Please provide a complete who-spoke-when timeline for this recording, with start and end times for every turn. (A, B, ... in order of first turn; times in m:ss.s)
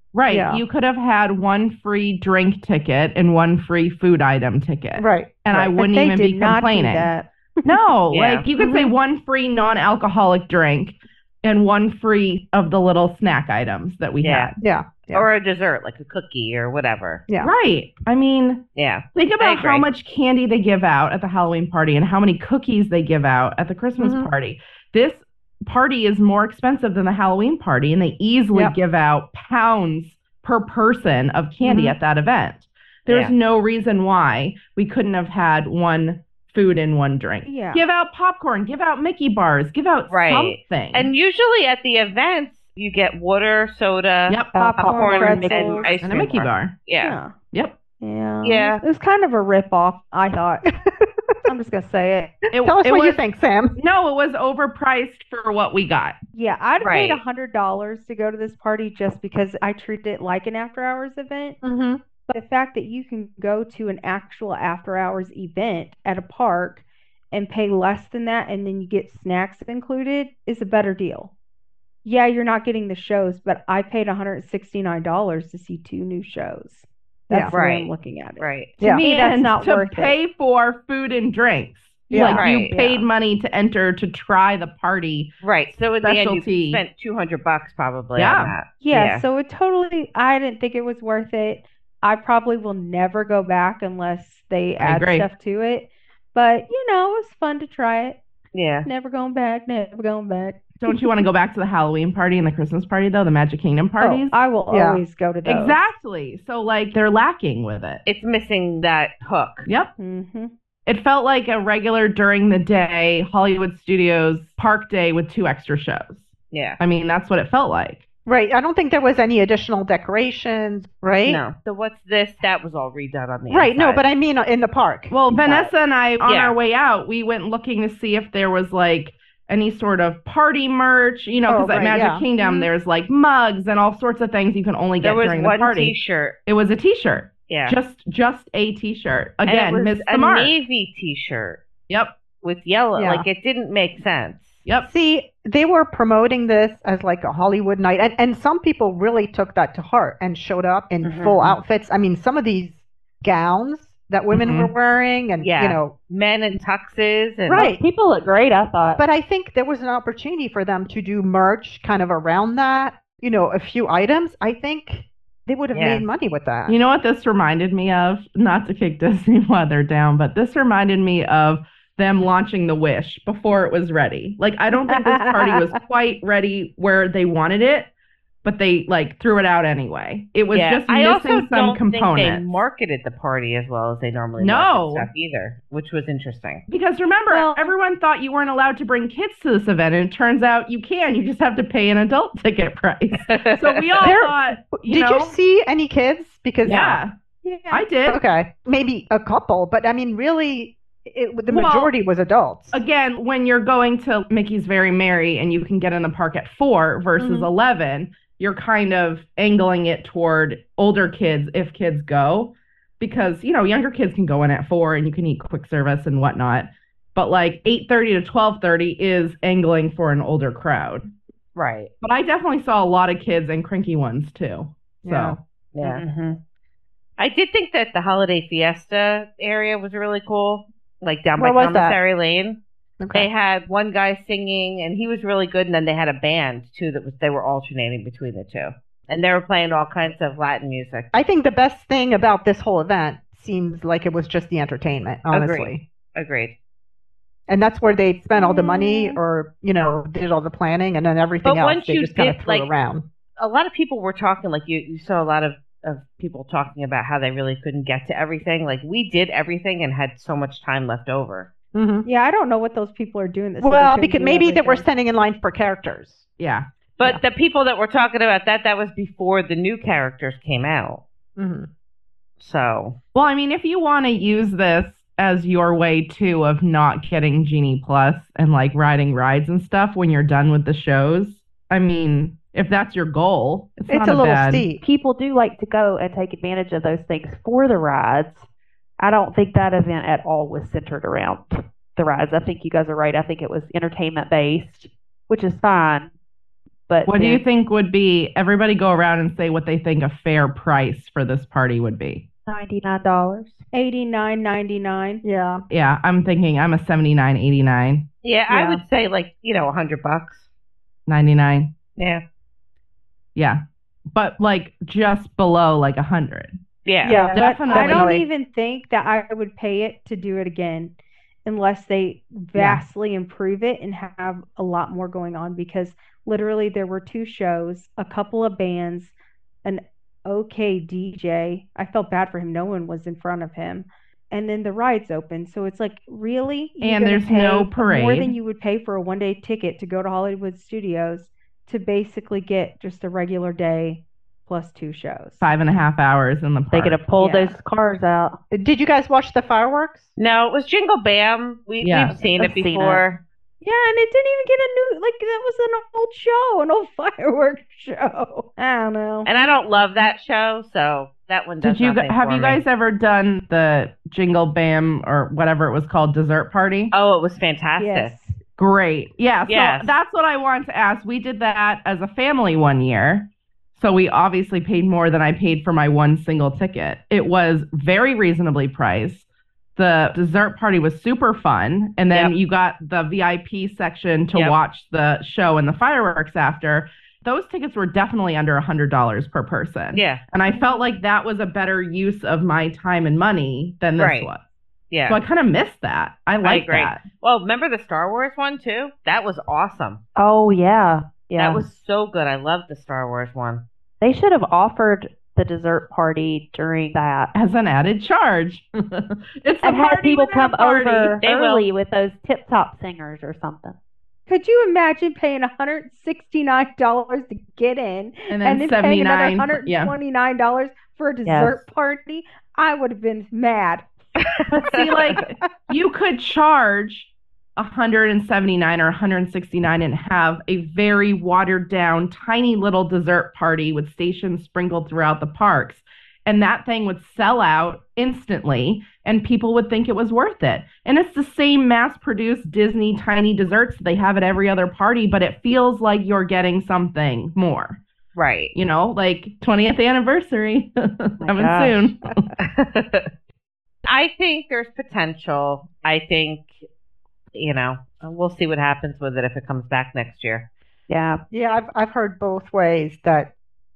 0:00.1-0:07.1 A
0:00.3-0:00.6 B
0:05.0-0:05.7 B
0:05.7-0:07.7 C
0:07.6-0:14.5 A
0:08.1-0:08.4 D
0:08.6-0:08.9 B
0:14.2-0:14.5 D
0:14.6-0:15.3 B
0:15.1-0:17.2 D
0:17.4-0:18.6 A
0:18.8-0:19.9 D
0:19.1-0:41.1 A
0:24.0-0:24.3 B
0:31.6-0:32.0 B
0:33.1-0:33.3 D
0:37.4-0:37.8 C
0:40.1-0:47.2 D
0:44.3-0:44.5 A
0:44.6-0:46.0 C
0:44.6-0:46.0 E
0:46.0-0:46.7 A
0:47.0-0:47.3 C
0:48.0-0:50.6 C
0:48.4-0:48.8 D
0:50.8-0:51.3 B
0:51.4-0:52.3 C
0:52.5-0:53.2 A
0:52.5-0:53.8 B
0:53.8-0:56.2 A
0:56.3-1:01.6 C
0:56.8-0:57.2 D
1:01.6-1:02.0 B
1:02.3-1:11.3 C
1:12.0-1:20.2 C
1:17.5-1:18.7 D
1:19.0-1:25.3 A
1:22.1-1:22.4 B
1:22.1-1:22.4 C
1:22.3-1:22.8 D
1:25.4-1:29.2 D
1:26.0-1:26.8 A
1:28.2-1:28.5 A
1:28.8-1:38.2 C
1:34.8-1:35.3 A
1:38.5-1:38.9 D
1:38.8-1:41.0 C
1:40.8-1:44.3 A
1:44.0-1:45.9 C
1:44.7-1:45.0 B
1:45.4-1:48.0 A
1:48.0-1:49.7 D
1:50.0-1:50.5 C
1:50.8-1:58.0 A
1:56.5-1:56.8 D
1:58.2-2:01.4 B
2:01.2-2:04.0 D
2:03.5-2:05.1 B
2:05.1-2:15.9 A
2:05.3-2:05.7 D
2:06.2-2:06.6 D
2:11.5-2:12.7 B
2:15.0-2:16.4 D
2:16.4-2:20.5 A
2:17.5-2:17.8 D
2:19.4-2:21.6 D
2:22.4-2:24.6 D
2:23.0-2:23.2 B
2:24.8-2:35.9 B
2:31.0-2:31.6 E
2:34.3-2:34.7 A
2:35.4-2:37.7 D
2:37.5-2:37.8 B
2:37.5-2:39.0 E
2:39.0-2:46.8 B
2:45.7-2:46.0 D
2:46.7-2:57.9 A
2:54.9-2:55.6 C
2:58.4-3:02.6 A
3:00.5-3:06.6 D
3:04.4-3:05.1 A
3:06.7-3:15.3 A
3:07.3-3:07.7 C
3:13.2-3:13.8 D
3:14.0-3:17.0 B
3:16.6-3:17.1 A
3:17.4-3:17.8 C
3:17.7-3:18.2 A
3:18.1-3:22.8 B
3:21.5-3:21.9 A
3:22.7-3:41.1 A
3:27.2-3:27.5 B
3:41.6-3:41.9 D
3:42.0-3:45.4 A
3:45.0-3:45.4 B
3:45.7-3:46.0 D
3:45.8-3:46.4 E
3:47.2-3:52.6 D
3:51.4-3:52.0 B
3:53.0-3:53.3 B
3:53.1-4:01.1 D
4:01.1-4:05.8 B
4:05.3-4:06.5 D
4:07.5-4:13.0 B
4:08.3-4:09.2 C
4:11.4-4:12.7 D
4:13.4-4:21.5 D
4:21.7-4:22.0 B
4:22.0-4:24.8 C
4:23.6-4:26.2 B
4:26.4-4:26.6 A
4:27.0-4:31.0 D
4:31.4-4:31.7 B
4:32.4-4:32.9 D
4:33.1-4:44.7 A
4:43.9-4:44.8 B
4:44.7-4:48.5 E
4:49.0-4:56.1 E
4:56.9-4:57.4 E
4:57.0-5:02.2 A
5:02.5-5:03.6 E
5:03.7-5:05.2 C
5:05.2-5:05.6 B
5:05.7-5:08.0 A
5:08.2-5:10.5 D
5:08.5-5:08.8 C
5:11.1-5:11.7 A
5:12.0-5:12.2 D
5:13.3-5:13.6 A
5:14.1-5:16.6 A
5:16.8-5:17.2 D
5:17.0-5:18.2 B
5:17.3-5:18.2 A
5:17.4-5:20.9 C
5:21.4-5:45.5 C
5:22.6-5:22.8 A
5:36.8-5:38.3 A
5:45.4-5:47.0 A
5:46.7-5:48.4 E
5:47.2-5:47.5 B
5:48.5-5:50.1 B
5:50.2-5:53.2 D
5:51.8-5:52.2 A
5:52.2-5:53.0 E
5:53.6-5:59.3 C
5:59.2-6:02.6 D
6:01.6-6:06.9 A
6:06.9-6:08.1 D
6:07.8-6:08.4 C
6:08.6-6:34.4 A
6:09.5-6:10.0 D
6:29.9-6:30.2 D
6:34.0-6:34.3 D
6:34.9-6:35.2 D
6:35.1-6:37.0 A
6:36.4-6:40.0 D
6:40.2-6:41.6 E
6:41.4-6:43.6 D
6:44.0-6:47.3 E
6:47.3-6:51.2 A
6:49.6-6:53.7 E
6:51.2-6:51.6 D
6:54.3-7:03.8 C
6:58.3-6:59.9 A
7:01.2-7:01.6 E
7:04.2-7:05.2 D
7:04.5-7:27.8 A
7:28.1-7:28.5 D
7:28.5-7:32.2 A
7:31.2-7:31.9 E
7:32.4-7:33.1 D
7:33.8-7:36.6 D
7:37.3-7:40.4 D
7:40.9-7:41.2 E
7:41.3-7:43.3 B